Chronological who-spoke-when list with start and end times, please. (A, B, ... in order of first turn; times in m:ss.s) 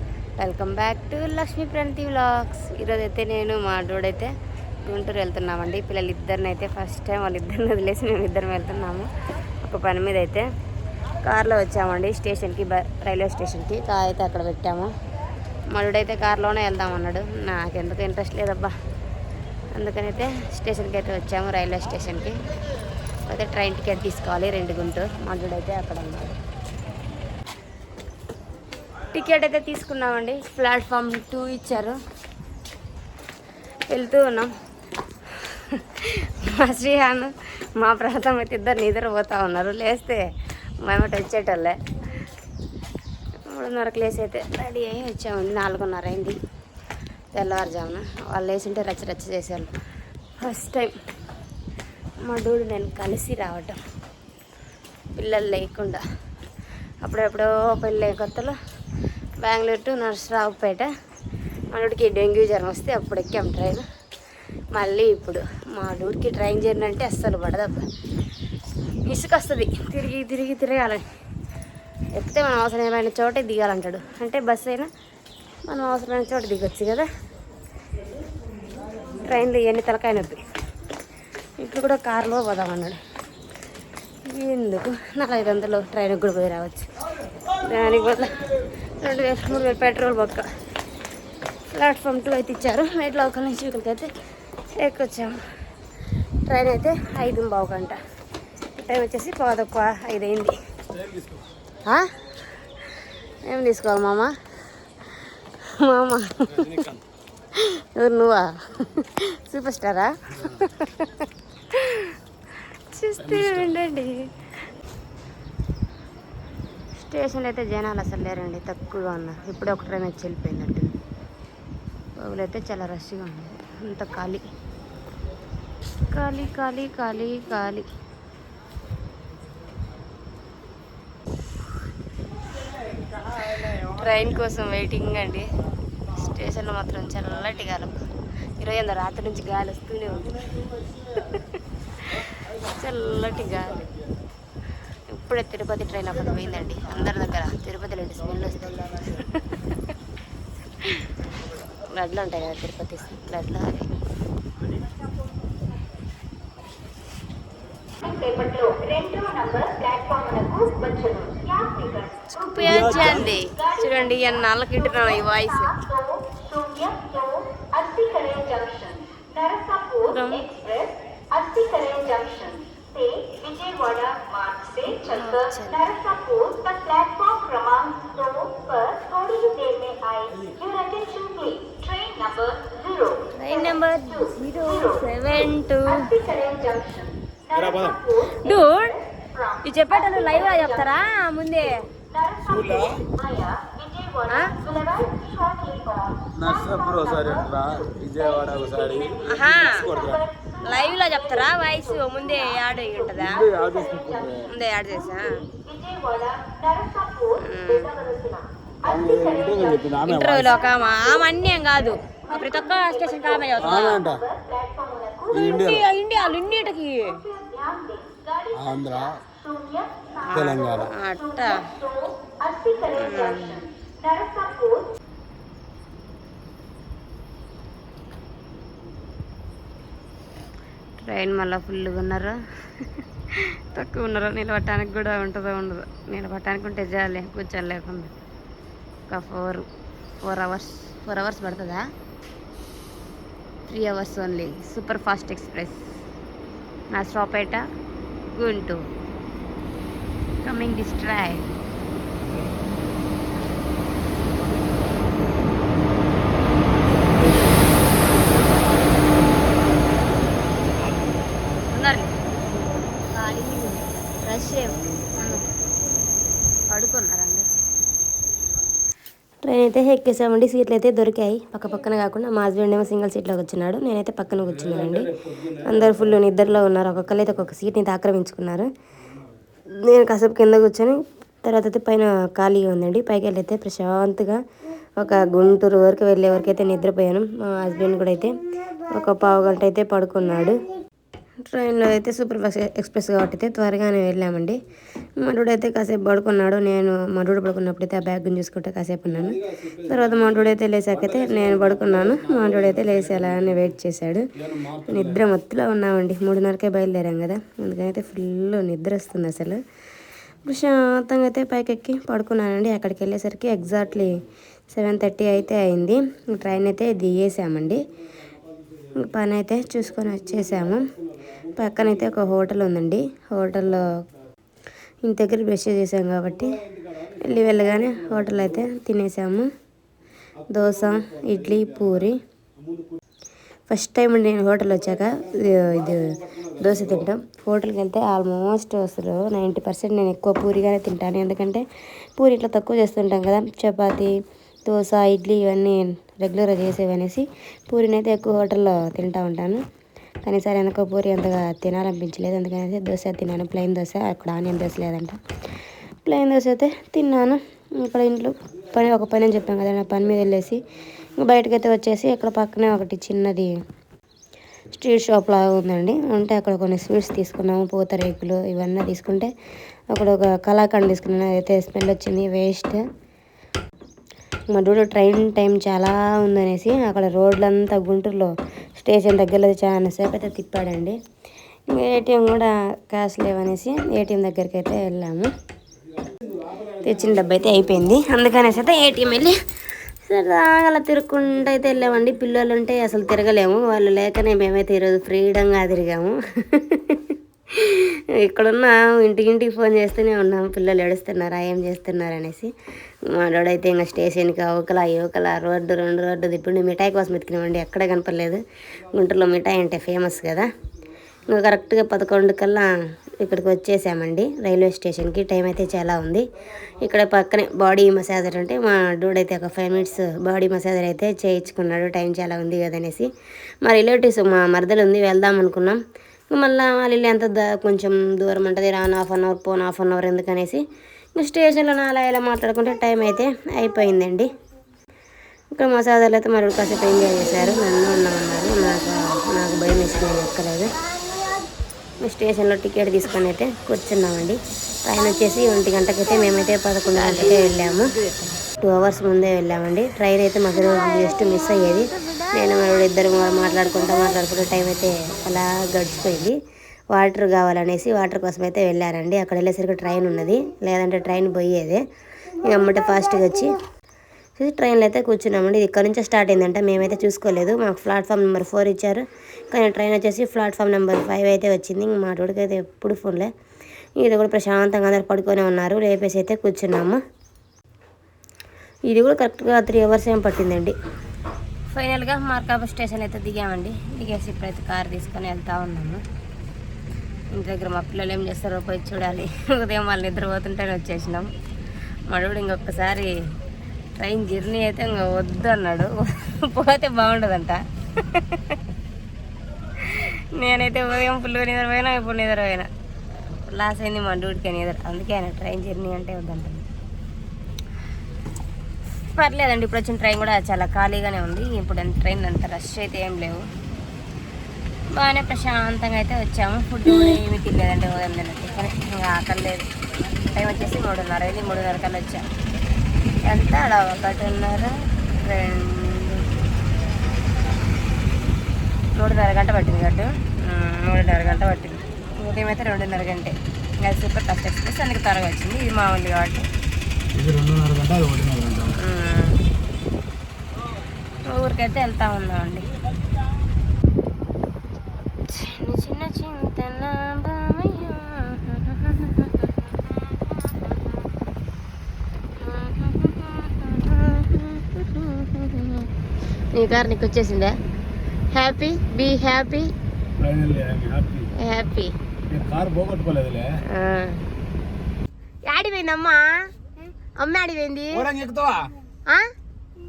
0:00.4-0:04.3 A
0:04.8-0:09.1 A
0:09.6-0:10.5 A
0:11.2-0:14.9 A
0:15.7-0:18.7 A
0:19.8-0:22.4 A
0:23.3-0:26.4 A
0:29.1-0:32.0 A
0:33.9-0:34.5 A
0:35.3-0:40.3 A
0:40.8-0:41.8 A
0:43.5-0:46.4 A
0:47.3-0:49.7 A
0:50.4-0:50.9 A
0:52.2-0:53.8 A
0:55.2-0:56.0 A
0:57.0-0:58.6 A
0:59.4-1:00.9 A
1:01.7-1:03.9 A
1:04.7-1:07.9 A
1:09.0-1:11.1 A
1:12.2-1:14.9 A
1:15.7-1:17.1 A
1:19.2-1:20.4 A
1:21.6-1:23.0 A
1:24.3-1:26.9 A
1:27.6-1:28.4 A
1:29.0-1:30.5 A
1:31.7-1:34.1 A
1:34.7-1:35.4 A
1:36.5-1:38.0 A
1:38.8-1:40.6 A
1:41.0-1:41.4 B
1:43.4-1:44.4 A
1:45.6-1:46.9 A
1:47.5-1:52.2 A
1:52.9-1:54.5 A
1:53.3-1:53.6 B
1:57.0-2:00.9 A
2:02.2-2:04.5 A
2:06.1-2:07.9 A
2:13.4-2:15.5 A
2:16.1-2:18.1 A
2:18.6-2:20.4 A
2:21.2-2:21.4 A
2:22.7-2:23.9 A
2:25.1-2:29.7 A
2:30.8-2:31.1 A
2:31.9-2:33.9 A
2:38.2-2:42.0 C
2:38.2-2:38.6 A
2:39.8-2:41.3 A
2:42.3-2:45.9 A
2:46.3-2:49.8 C
2:50.0-2:50.7 A
2:51.4-2:54.8 C
2:54.8-2:56.5 A
2:56.6-3:03.2 C
3:03.2-3:06.3 A
3:06.3-3:07.1 C
3:07.5-3:08.1 B
3:08.2-3:09.0 A
3:09.6-3:11.9 A
3:12.4-3:13.1 B
3:13.2-3:14.2 C
3:14.2-3:15.0 A
3:14.9-3:16.3 C
3:16.3-3:20.3 B
3:19.2-3:20.1 A
3:20.6-3:23.7 A
3:23.2-3:24.5 B
3:24.3-3:25.5 A
3:25.6-3:27.0 C
3:27.3-3:28.2 A
3:28.1-3:28.4 C
3:28.8-3:30.6 B
3:30.0-3:34.2 A
3:33.6-3:34.3 B
3:34.4-3:35.3 C
3:35.3-3:35.8 B
3:35.3-3:37.4 A
3:37.4-3:38.4 C
3:38.5-3:39.2 B
3:39.5-3:40.0 C
3:40.2-3:41.8 A
3:40.3-3:40.9 B
3:42.4-3:42.7 C
3:42.8-3:43.7 A
3:44.1-3:44.8 C
3:51.0-3:58.1 A
3:59.1-3:59.7 A
4:00.2-4:01.8 A
4:03.7-4:05.8 A
4:06.9-4:07.6 A
4:08.3-4:08.9 A
4:10.4-4:11.5 A
4:17.1-4:17.4 B
4:21.7-4:22.2 A
4:23.1-4:25.4 A
4:26.7-4:27.5 A
4:29.4-4:38.7 A
4:39.7-4:44.4 A
4:45.0-4:48.4 A
4:48.9-4:50.6 A
4:51.5-4:54.6 A
4:55.2-5:09.6 A
5:10.4-5:14.2 A
5:14.7-5:17.8 A
5:19.0-5:20.9 A
5:21.5-5:23.9 A
5:25.0-5:26.6 A
5:27.2-5:29.5 A
5:30.5-5:32.2 A
5:33.7-5:49.6 A
5:50.2-5:55.2 A
5:56.0-6:00.6 A
6:01.2-6:03.5 A
6:04.7-6:09.3 A
6:09.9-6:12.8 A
6:14.5-6:21.0 A
6:21.7-6:25.3 A
6:26.8-6:29.4 A
6:30.0-6:42.5 A
6:43.1-6:48.4 A
6:48.9-6:50.5 A
6:51.3-6:56.2 A
6:56.8-7:03.1 A
7:03.6-7:05.8 A
7:06.3-7:10.6 A
7:11.2-7:14.3 A
7:15.5-7:20.7 A
7:22.0-7:36.4 A
7:36.9-7:41.8 A
7:42.4-7:43.5 A
7:44.4-7:53.3 A
7:54.0-7:57.0 A
7:58.9-8:00.8 A
8:01.7-8:06.0 A
8:07.4-8:11.3 A
8:12.1-8:13.2 A
8:14.0-8:18.6 A
8:19.8-8:22.7 A
8:23.4-8:26.7 A
8:29.1-8:33.4 A
8:34.9-8:39.7 A
8:40.3-8:42.3 A
8:43.2-8:46.3 A
8:49.0-8:56.5 A
8:57.1-8:58.8 B
8:58.7-8:59.4 A
9:01.3-9:02.7 A
9:05.3-9:10.6 A
9:12.4-9:15.9 A
9:16.5-9:17.6 A
9:18.3-9:19.7 A
9:20.2-9:21.3 B
9:21.4-9:22.0 A
9:22.3-9:23.5 B
9:23.7-9:24.2 A
9:25.5-9:26.5 A
9:27.2-9:28.1 A
9:28.0-9:28.8 B
9:29.1-9:29.3 A